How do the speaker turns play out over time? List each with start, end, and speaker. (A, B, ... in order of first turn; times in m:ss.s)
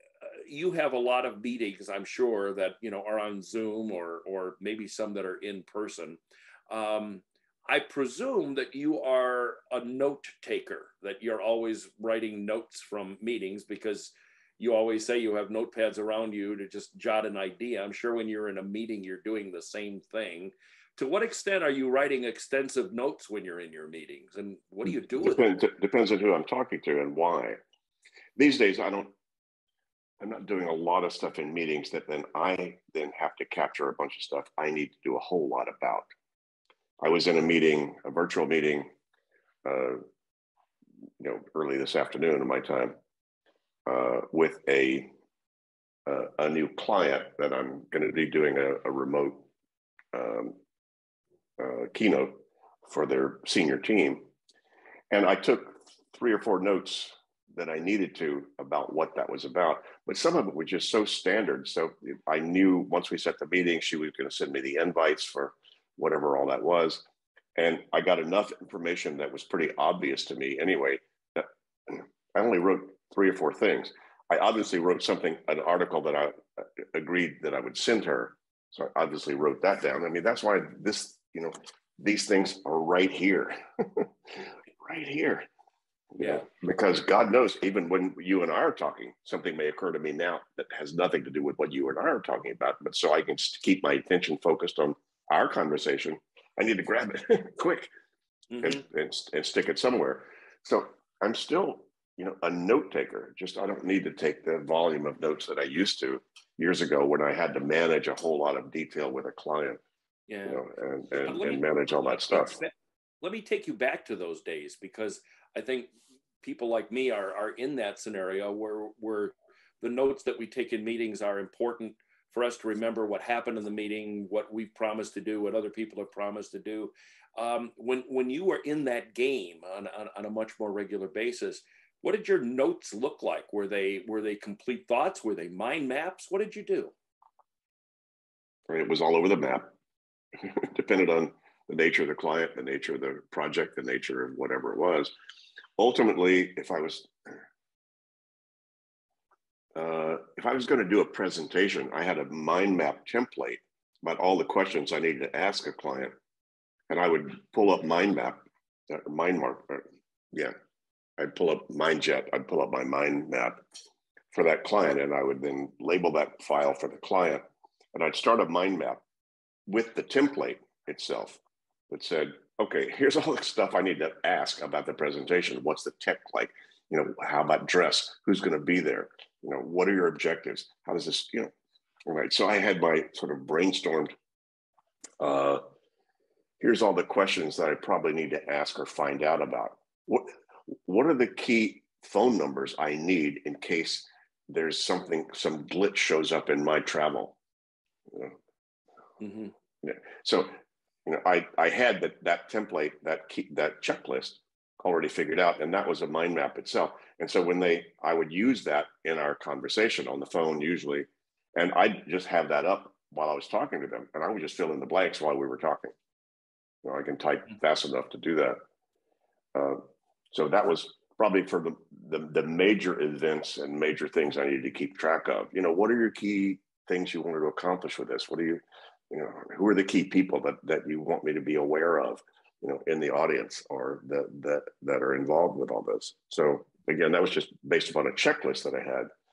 0:00.4-0:25.4 A
0:24.8-0:27.6 B
0:28.4-0:29.1 B
0:30.2-0:36.1 B
0:37.0-0:38.9 B
0:39.6-0:40.0 B
0:41.2-0:43.0 B
0:43.8-0:45.1 B
0:46.0-0:49.5 B
0:50.1-0:50.6 B
0:51.6-0:54.3 B
0:55.1-1:07.0 B
1:07.6-1:25.5 B
1:26.2-1:37.9 B
1:38.5-1:38.8 A
1:38.6-1:49.8 B
1:50.3-1:55.9 A
1:50.4-1:52.6 B
1:56.4-2:16.9 A
2:18.7-2:19.7 B
2:20.4-2:25.1 B
2:25.8-2:27.1 B
2:29.7-2:36.1 B
2:36.9-2:40.5 B
2:41.2-2:43.6 B
2:44.3-2:47.4 B
2:47.9-2:49.0 B
2:49.7-3:01.5 B
3:02.0-3:04.1 B
3:05.2-3:05.6 B
3:06.6-3:10.3 B
3:10.8-3:17.4 B
3:18.1-3:18.4 B
3:19.2-3:19.5 A
3:19.8-3:20.5 B
3:21.0-3:35.9 B
3:36.8-3:38.6 B
3:39.5-3:59.1 B